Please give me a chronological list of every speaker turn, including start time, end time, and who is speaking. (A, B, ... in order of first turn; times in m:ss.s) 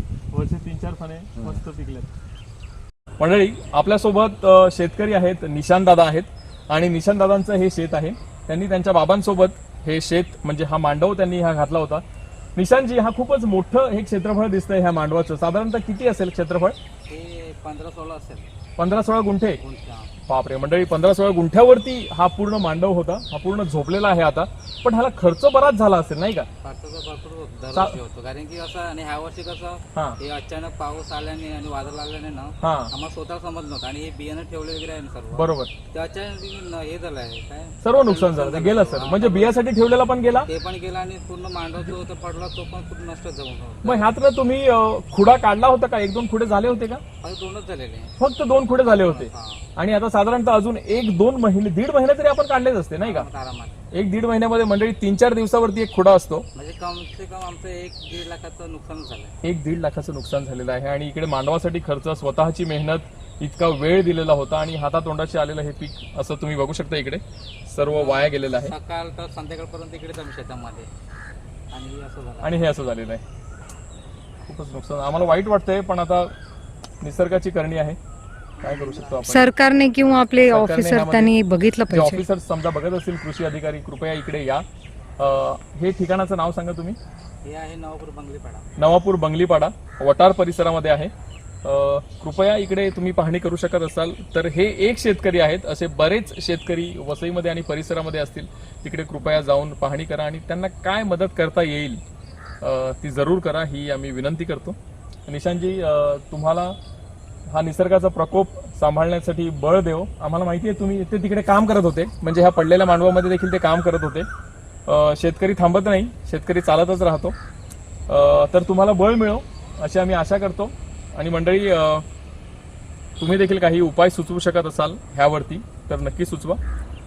0:00.3-0:02.1 A
0:03.2-0:12.0 A
0:12.6-0:16.8 A
0:17.1-0:18.4 B
0:18.8-0:19.6 A
0:19.6-0:20.1 B
0:20.3-0:26.5 A
0:26.6-0:39.6 B
0:27.7-0:28.0 A
0:29.9-0:30.2 A
0:32.6-0:32.9 A
0:35.3-0:35.7 A
0:37.8-0:40.5 A
0:40.3-0:44.1 B
0:43.8-0:47.0 A
0:47.2-0:49.6 B
0:48.2-0:53.3 A
0:53.0-0:53.7 B
0:53.9-0:56.4 A
0:56.5-0:59.3 B
0:59.4-1:08.7 A
1:07.9-1:10.9 B
1:11.7-1:12.6 B
1:12.4-1:13.2 A
1:14.4-1:16.3 A
1:17.0-1:18.0 A
1:18.6-1:19.2 B
1:18.6-1:19.5 A
1:19.2-1:22.2 C
1:20.5-1:21.3 A
1:21.9-1:24.6 A
1:25.2-1:27.0 A
1:27.4-1:28.6 B
1:28.8-1:31.1 A
1:31.6-1:42.0 A
1:42.6-1:46.8 A
1:47.5-1:54.3 A
1:54.8-1:57.4 A
1:58.1-2:02.0 A
2:03.2-2:06.6 A